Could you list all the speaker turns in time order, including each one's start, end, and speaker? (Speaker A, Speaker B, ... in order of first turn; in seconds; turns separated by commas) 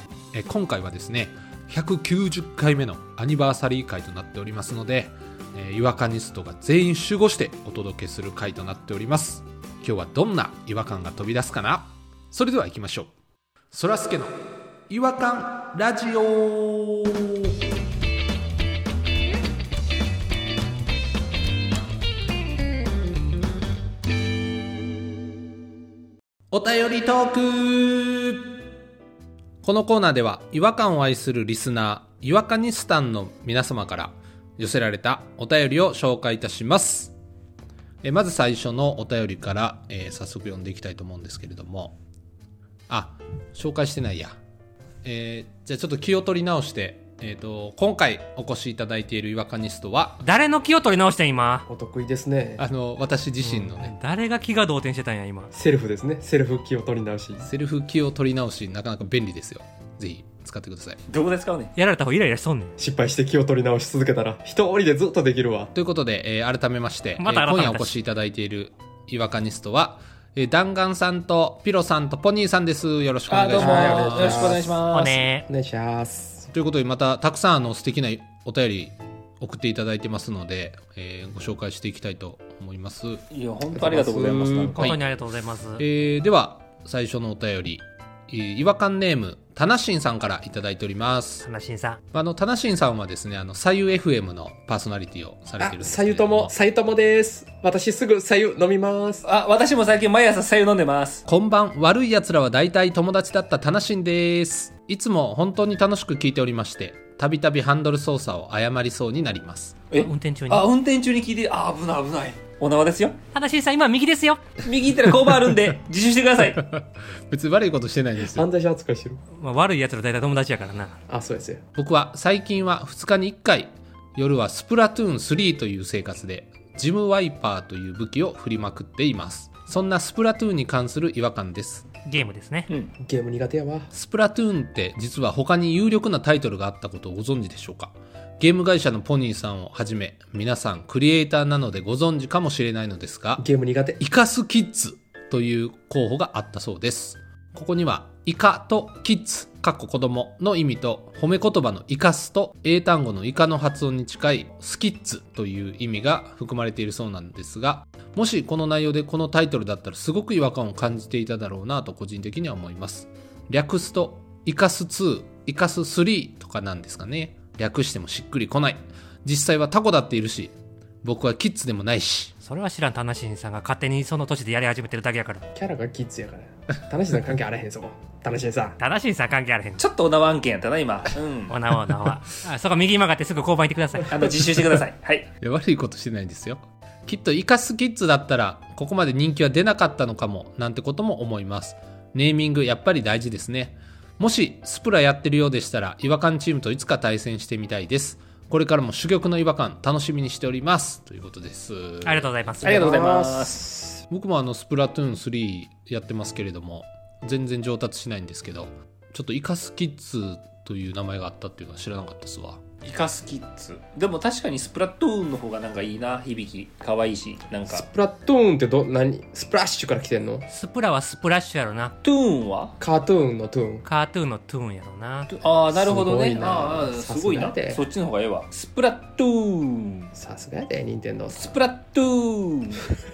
Speaker A: 0.3-13.1, Speaker A: 13.7-14.4, Speaker A: 14.9-17.5, Speaker A: 26.5-28.4, Speaker A: 29.6-37.1, Speaker A: 38.0-42.0, Speaker A: 42.9-44.4, Speaker A: 45.0-50.2, Speaker B: 50.2-51.7, Speaker C: 51.7-52.6, Speaker A: 52.6-54.0, Speaker B: 53.4-55.5, Speaker C: 55.5-57.5, Speaker A: 57.4-61.0, Speaker D: 61.1-61.7, Speaker B: 61.8-62.8, Speaker C: 62.8-65.7, Speaker A: 65.7-74.7, Speaker B: 67.2-67.9, Speaker D: 73.3-75.2, Speaker C: 73.6-74.8, Speaker B: 74.9-75.5, Speaker C: 75.5-76.5, Speaker A: 76.5-83.2, Speaker D: 83.3-84.9, Speaker C: 83.7-84.9, Speaker B: 84.7-85.8, Speaker A: 85.8-91.5, Speaker B: 91.4-92.0, Speaker A: 92.1-96.5, Speaker C: 95.6-99.3, Speaker D: 99.3-101.3, Speaker A: 101.3-109.8, Speaker D: 109.9-113.2, Speaker B: 110.0-110.7, Speaker B: 113.3-114.4, Speaker D: 114.6-116.6, Speaker A: 115.3-115.8, Speaker A: 116.5-118.5, Speaker C: 118.2-119.2, Speaker B: 119.3-121.0, Speaker C: 121.1-121.6, Speaker A: 121.8-131.9, Speaker B: 132.1-132.7, Speaker C: 133.0-133.9, Speaker A: 133.9-143.4, Speaker C: 143.4-144.0, Speaker A: 144.0-172.3, Speaker B: 172.4-175.4, Speaker C: 175.5-178.8, Speaker B: 178.8-179.8, Speaker D: 179.8-181.6, Speaker B: 181.5-184.2, Speaker D: 184.1-185.3, Speaker A: 185.4-202.3, Speaker B: 202.0-202.9, Speaker D: 202.6-203.6, Speaker C: 202.6-204.0, Speaker A: 204.1-212.6, Speaker D: 212.8-217.9, Speaker C: 217.7-220.5, Speaker B: 220.5-222.0, Speaker D: 222.0-222.8, Speaker C: 222.8-223.8, Speaker B: 223.8-225.3, Speaker D: 225.3-230.1, Speaker C: 225.7-227.8, Speaker C: 230.1-231.5, Speaker D: 231.3-232.9